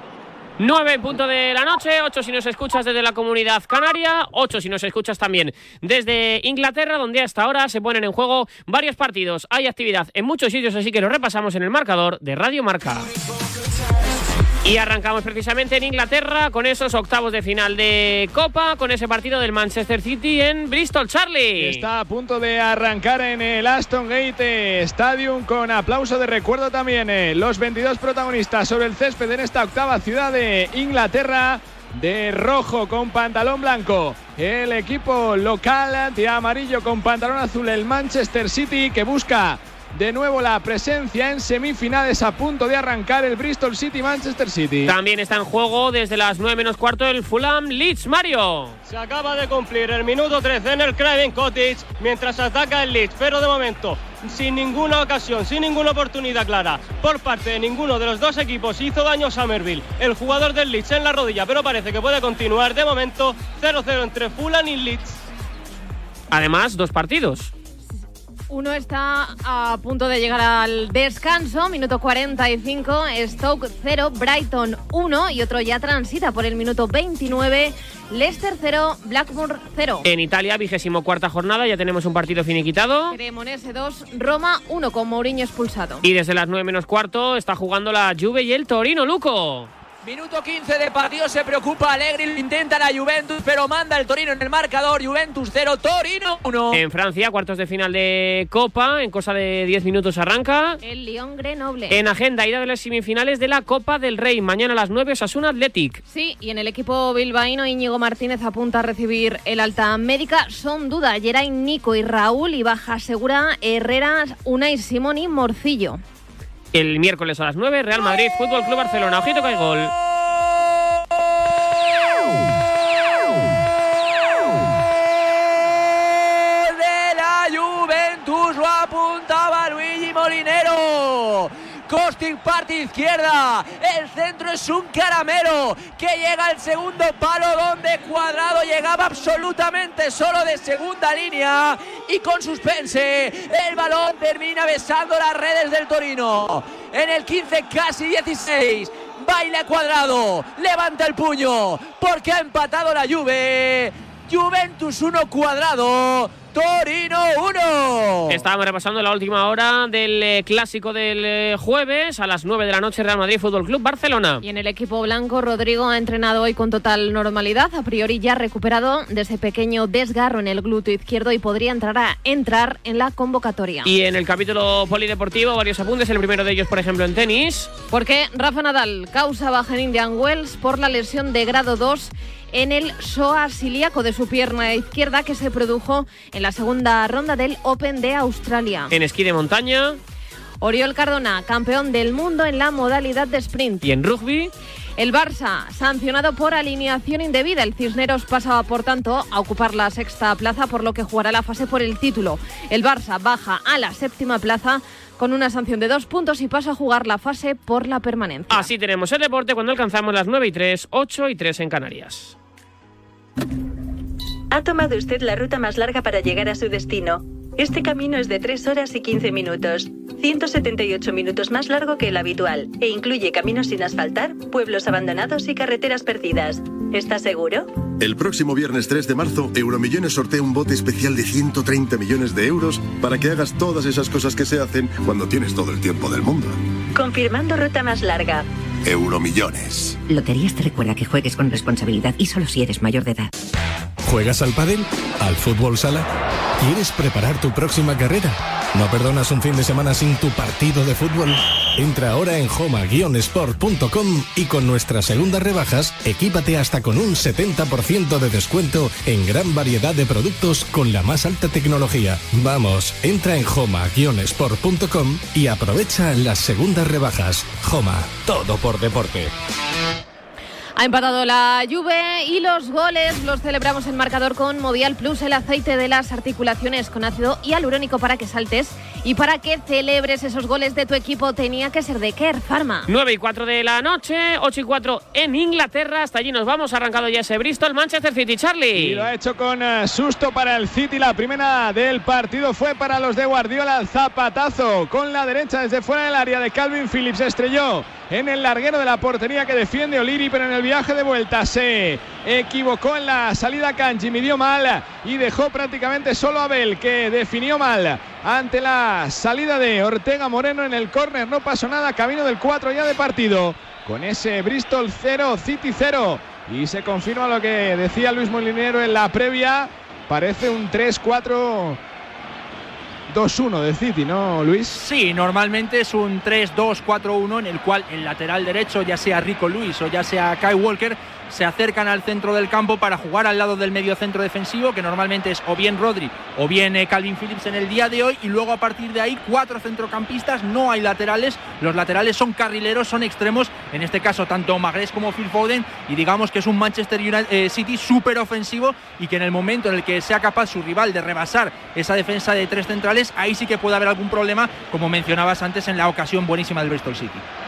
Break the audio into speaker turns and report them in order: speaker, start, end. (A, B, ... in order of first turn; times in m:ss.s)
0:00.6-0:13.1 A
0:14.6-0:21.9 A
0:21.6-0:44.9 B
0:44.8-0:48.8 A
0:48.9-1:05.2 C
1:06.3-1:07.5 A
1:08.5-1:20.1 D
1:20.0-1:23.2 A
1:23.1-1:26.0 D
1:26.0-1:29.7 A
1:30.0-1:36.8 E
1:36.7-1:40.8 A
1:40.8-1:42.0 D
1:41.9-1:46.0 A
1:46.1-1:56.0 D
1:56.7-1:59.9 A
2:04.4-2:38.4 E
2:38.3-2:44.4 A
2:44.4-2:53.9 D
2:53.8-2:57.7 A
2:57.9-3:08.9 D
3:08.9-3:10.0 A
3:10.6-3:13.8 D
3:13.8-3:14.5 A
3:15.0-3:28.7 D
3:28.5-3:32.4 A
3:34.5-3:47.8 F
3:48.0-3:56.6 G
3:56.9-3:58.5 F
3:58.8-4:00.0 G
4:00.2-4:03.2 H
4:04.0-4:06.1 I
4:06.6-4:29.3 I
4:30.8-4:42.9 D
4:42.9-4:49.1 A
4:48.8-5:21.8 B
5:23.1-5:24.8 B
5:24.7-5:57.2 J